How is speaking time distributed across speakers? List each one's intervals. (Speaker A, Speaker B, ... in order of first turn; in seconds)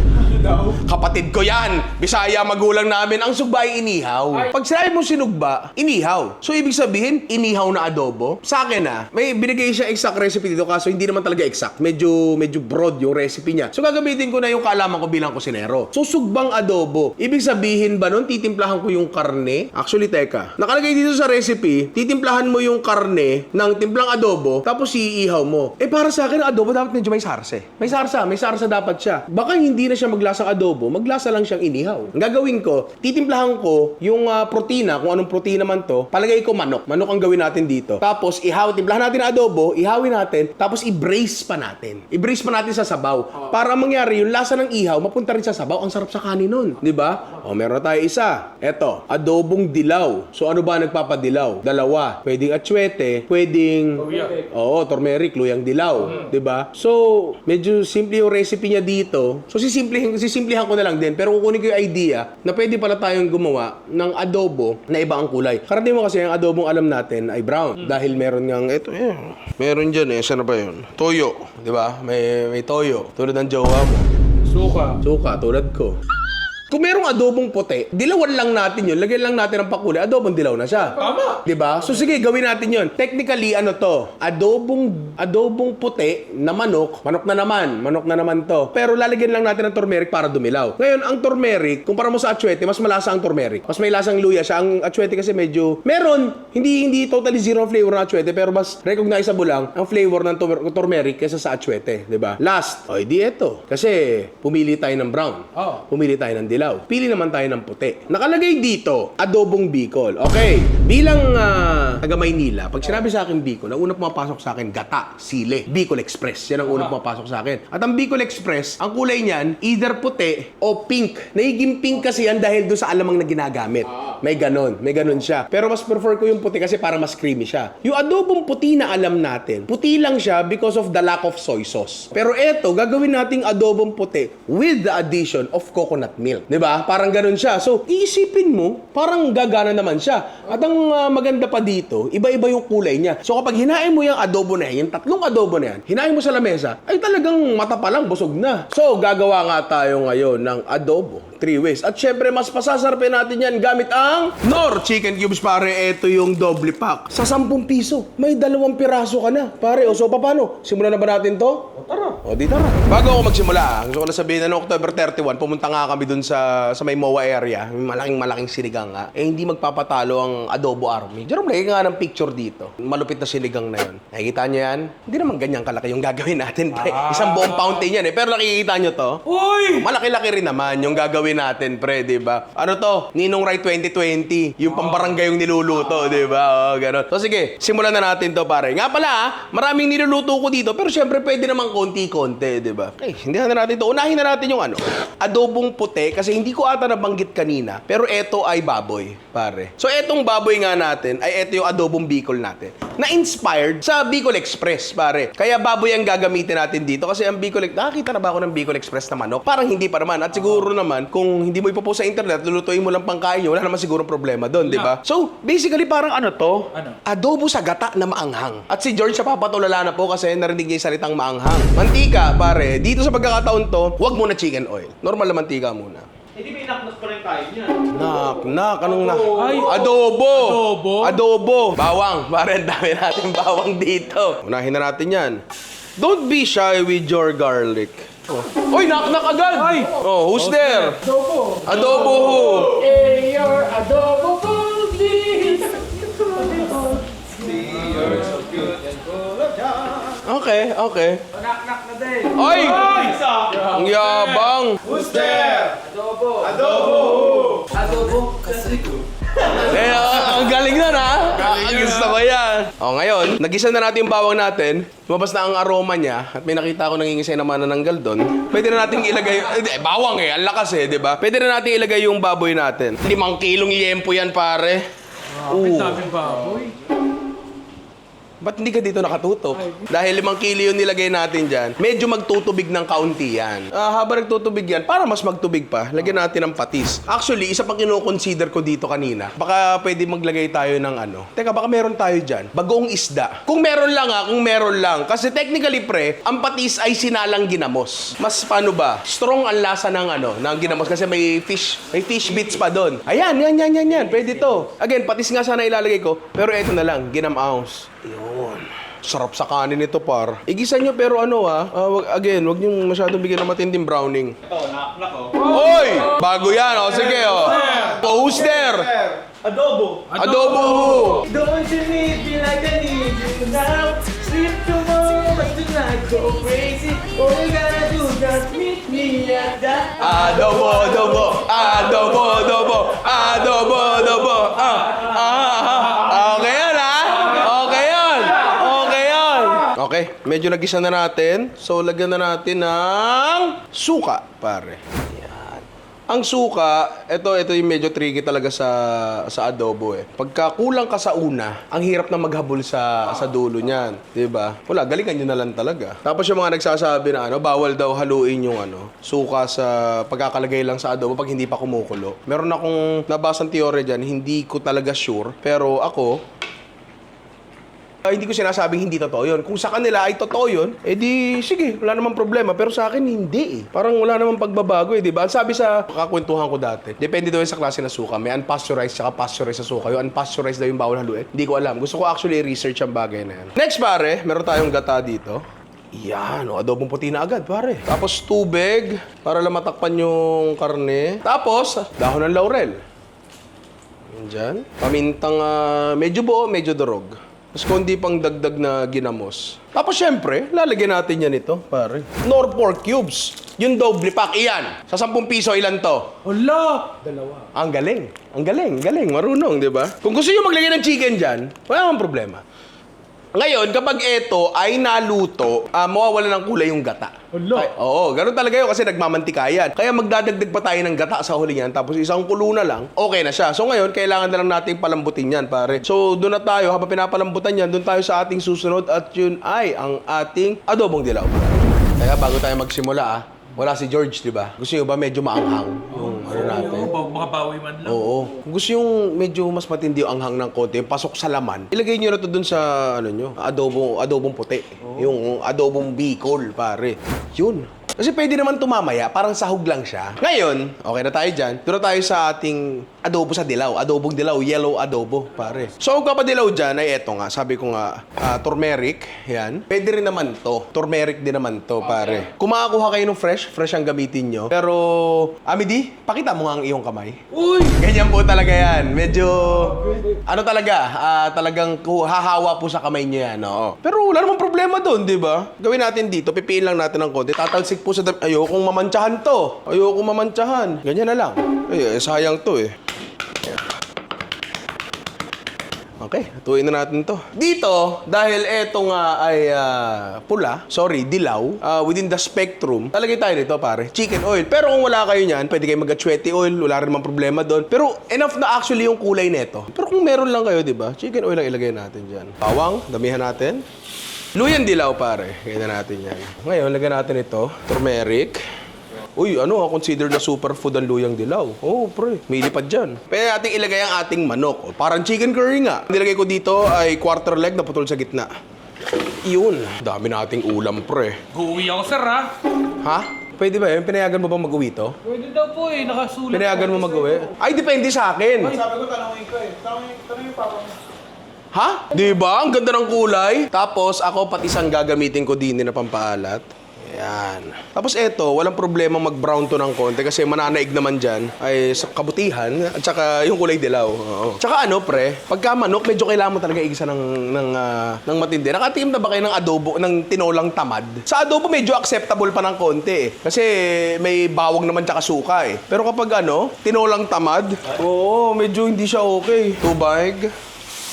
Speaker A: 0.2-0.7, 54.1-54.4, 226.3-227.9, 229.0-229.7, 241.6-250.2, 251.4-253.7, 254.8-259.7, 314.4-315.4, 316.8-320.1, 321.0-334.1, 528.5-530.8
Speaker B: 0.7-74.0, 75.0-76.0, 76.7-226.1, 227.9-235.4, 236.0-241.0, 241.7-242.8, 250.2-251.2, 252.3-253.1, 253.7-254.8, 259.6-274.9, 275.4-276.0, 278.4-314.4, 315.5-318.9, 320.2-321.2, 330.0-366.2, 368.0-392.8, 394.1-406.1, 407.5-412.4, 413.3-436.9, 437.8-482.8, 486.0-503.6, 504.3-508.4, 509.1-518.3, 519.2-521.2, 522.8-525.0, 526.3-528.5, 531.5-560.3
Speaker C: 54.0-54.4, 56.0-56.3, 74.4-75.0, 80.9-81.4, 105.5-105.8, 116.6-116.9, 176.8-177.8, 179.2-179.8, 184.8-185.1, 214.6-214.9, 229.3-231.2, 239.5-242.6, 243.1-245.7, 246.4-246.8, 247.5-248.4, 252.5-253.2, 253.8-255.0, 256.0-258.9, 259.7-260.3, 261.4-262.0, 275.3-276.8, 315.4-318.1, 320.1-321.2, 406.2-407.4, 417.3-417.7, 435.9-438.4, 467.3-467.7, 521.3-522.3, 525.0-527.3